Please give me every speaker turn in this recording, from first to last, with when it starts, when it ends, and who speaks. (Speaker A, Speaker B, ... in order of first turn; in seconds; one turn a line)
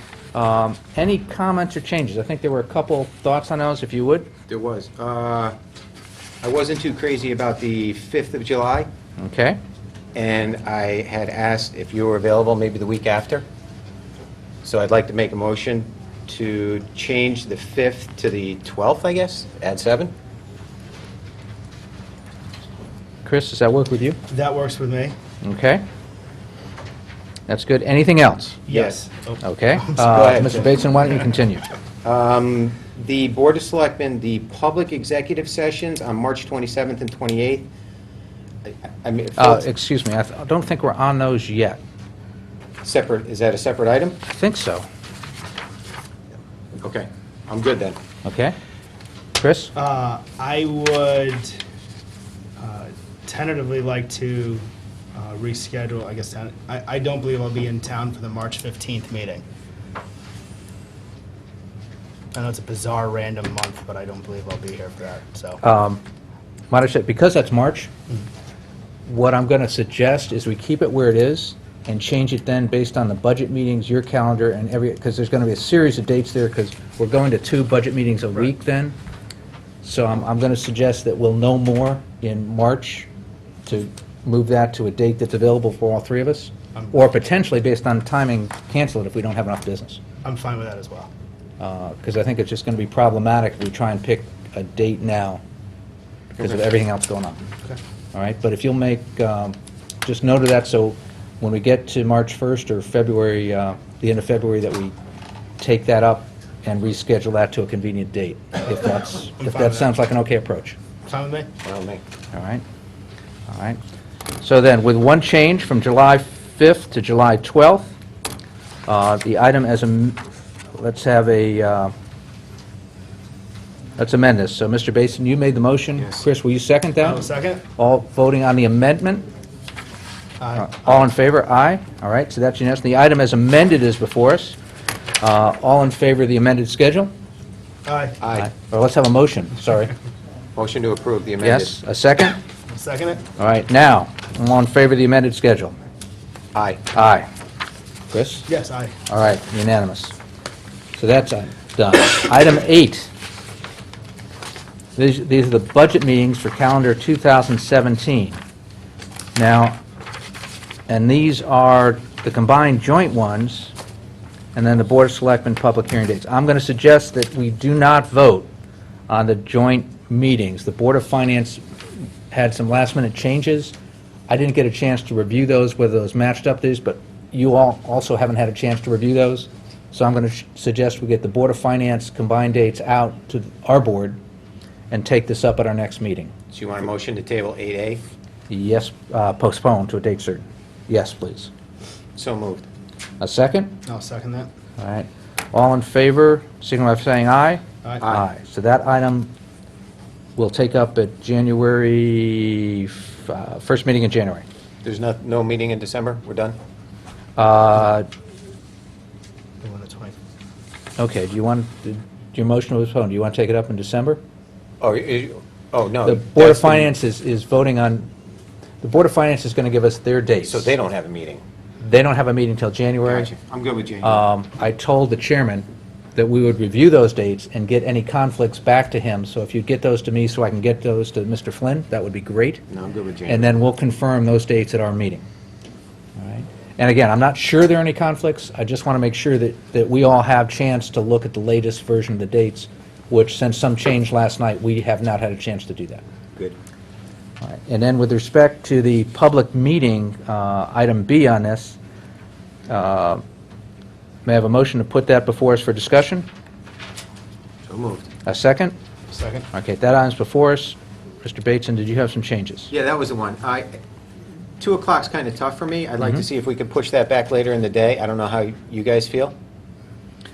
Speaker A: 0.3-4.3
Speaker B: 4.5-5.5
Speaker B: 6.4-8.9
Speaker A: 9.2-9.6
Speaker B: 10.2-13.5
Speaker B: 14.6-20.1
Speaker A: 23.2-24.2
Speaker C: 24.3-25.2
Speaker A: 25.4-25.9
Speaker A: 27.5-28.6
Speaker C: 28.7-30.8
Speaker B: 28.7-29.0
Speaker A: 29.4-31.7
Speaker B: 30.1-30.7
Speaker B: 32.0-37.7
Speaker B: 38.6-39.6
Speaker A: 39.4-41.8
Speaker B: 42.8-44.2
Speaker A: 44.3-44.9
Speaker B: 46.8-48.0
Speaker A: 48.2-48.5
Speaker A: 49.4-49.7
Speaker C: 49.8-51.6
Speaker C: 52.6-59.4
Speaker C: 62.3-65.6
Speaker A: 65.6-66.0
Speaker A: 66.7-67.9
Speaker A: 69.1-79.0
Speaker A: 79.8-83.1
Speaker A: 83.7-90.0
Speaker C: 86.8-87.1
Speaker C: 90.2-91.1
Speaker A: 91.6-95.4
Speaker B: 96.3-96.7
Speaker A: 96.4-97.5
Speaker A: 98.1-104.9
Speaker A: 105.6-110.8
Speaker C: 109.4-109.9
Speaker C: 111.1-111.5
Speaker B: 111.6-112.0
Speaker A: 112.3-112.6
Speaker A: 113.5-113.8
Speaker A: 114.4-117.9
Speaker A: 118.9-120.2
Speaker A: 120.8-121.9
Speaker A: 124.0-129.3
Speaker C: 127.0-127.7
Speaker C: 130.4-131.0
Speaker A: 130.6-134.6
Speaker A: 135.2-137.1
Speaker C: 137.8-138.2
Speaker B: 138.2-138.5
Speaker A: 138.3-139.9
Speaker B: 140.6-141.8
Speaker A: 141.4-142.4
Speaker C: 142.7-143.2
Speaker A: 143.4-145.8
Speaker B: 146.5-146.9
Speaker A: 146.9-147.3
Speaker A: 148.1-148.5
Speaker C: 148.5-149.0
Speaker A: 149.1-150.2
Speaker A: 151.0-153.1
Speaker A: 155.0-158.4
Speaker A: 159.4-159.8
Speaker A: 160.9-163.7
Speaker A: 164.6-168.5
Speaker A: 169.1-171.6
Speaker A: 172.3-173.8
Speaker A: 174.3-184.2
Speaker A: 184.9-186.3
Speaker B: 186.5-188.0
Speaker A: 188.5-191.5
Speaker B: 192.2-192.7
Speaker A: 193.2-193.8
Speaker C: 193.9-194.5
Speaker A: 194.8-199.3
Speaker B: 198.0-198.3
Speaker A: 200.4-204.4
Speaker B: 204.8-206.6
Speaker A: 207.4-208.1
Speaker C: 209.6-210.2
Speaker A: 211.0-214.2
Speaker B: 214.8-216.9
Speaker A: 216.1-218.1
Speaker A: 218.8-220.7
Speaker B: 220.4-221.4
Speaker A: 221.8-223.3
Speaker B: 223.1-224.2
Speaker A: 224.0-232.6
Speaker B: 232.7-233.6
Speaker A: 233.3-235.2
Speaker A: 236.2-246.0
Speaker A: 247.4-251.8
Speaker A: 252.7-253.2
Speaker A: 254.2-256.3
Speaker B: 257.7-258.1
Speaker A: 258.3-258.8
Speaker C: 259.1-259.5
Speaker A: 259.5-262.7
Speaker B: 262.7-263.8
Speaker B: 264.6-269.4